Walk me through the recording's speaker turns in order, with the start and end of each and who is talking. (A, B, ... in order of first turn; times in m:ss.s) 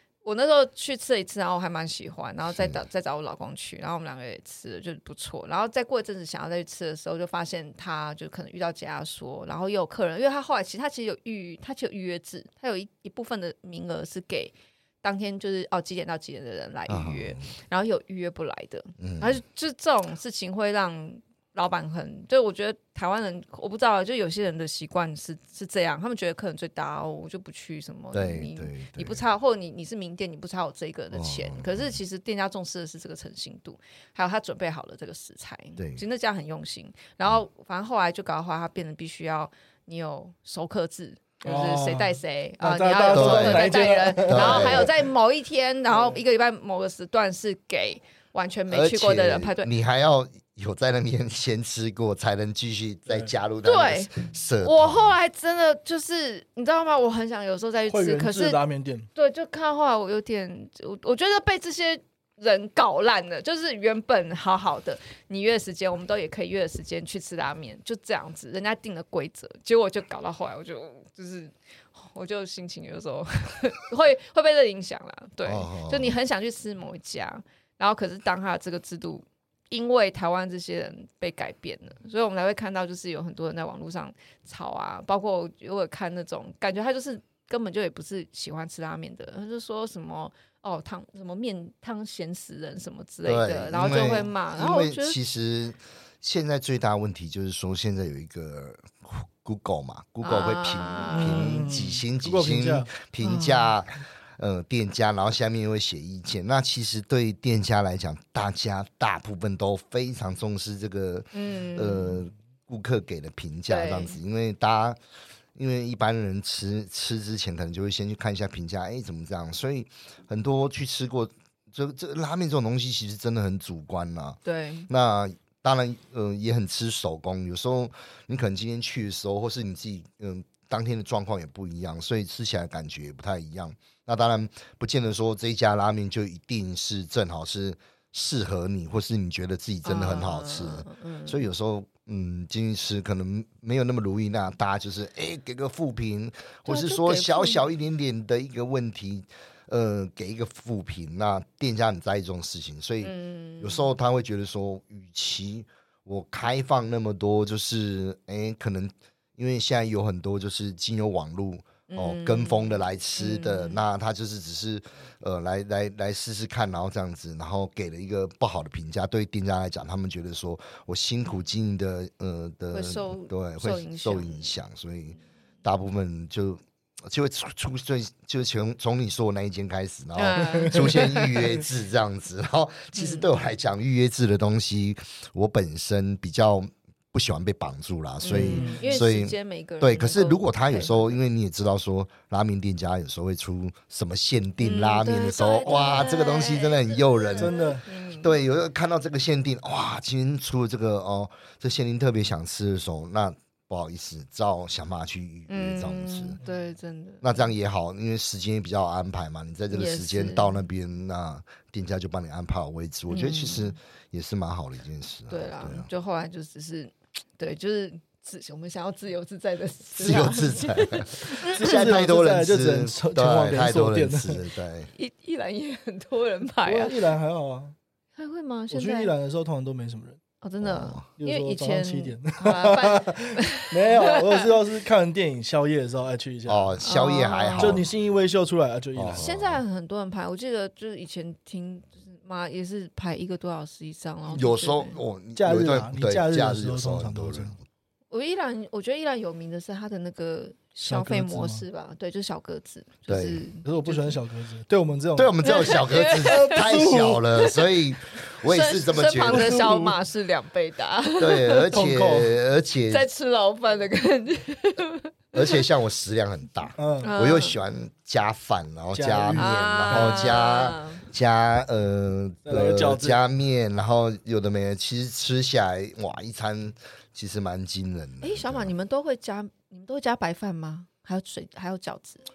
0:00.2-0:49.7 A
0:16.9-0:17.5 B
0:19.0-0:19.4 B
0:28.1-0:29.2 B
0:31.1-0:32.0 B
0:35.8-0:36.0 B
0:41.4-0:44.9 C
0:43.1-0:44.9 B
0:48.7-0:55.2 B
0:53.6-0:58.6 A
0:57.9-0:59.1 C
0:59.1-1:35.2 A
1:15.4-1:16.1 B
1:33.2-1:55.0 B
1:40.2-1:41.7 A
1:41.1-1:43.0 C
1:51.3-1:52.2 A
1:53.7-1:54.2 A
1:55.5-3:17.6 B
2:04.4-2:04.9 A
2:19.8-2:21.4 A
2:26.6-2:27.6 A
2:33.0-2:33.9 A
2:41.9-2:43.8 A
2:52.7-2:54.5 A
3:00.1-3:01.4 A
3:03.0-3:03.3 A
3:08.2-3:11.2 A
3:08.3-3:08.9 C
3:14.6-3:18.4 A
3:17.4-3:17.8 C
3:18.1-3:26.4 B
3:25.5-3:27.5 A
3:27.2-3:35.9 B
3:29.7-3:30.6 A
3:33.1-3:33.7 A
3:35.3-3:41.6 A
3:40.0-3:44.9 B
3:41.4-3:44.4 C
3:44.9-3:47.0 A
3:46.6-3:47.7 C
3:48.2-3:49.1 A
3:48.7-3:50.2 C
3:50.4-3:54.5 A
3:50.6-3:51.0 B
3:51.2-3:56.8 C
3:56.4-3:57.9 B
3:56.8-3:57.8 A
3:57.6-3:59.3 C
3:58.9-3:59.6 B
3:59.1-4:05.0 A
4:04.3-4:07.6 B
4:05.3-4:07.6 C
4:08.1-4:14.2 A
4:10.8-4:11.6 C
4:13.1-4:13.4 B
4:13.6-4:17.4 C
4:15.2-4:19.7 B
4:15.4-4:16.6 A
4:18.4-4:21.7 A
4:19.2-4:20.0 C
4:21.2-4:23.1 B
4:21.7-4:22.4 C
4:22.9-4:25.6 A
4:25.3-4:38.7 B
4:26.8-4:27.1 C
4:27.0-4:27.6 A
4:28.9-4:30.3 C
4:29.4-4:31.0 A
4:32.4-4:33.2 C
4:38.2-4:42.2 A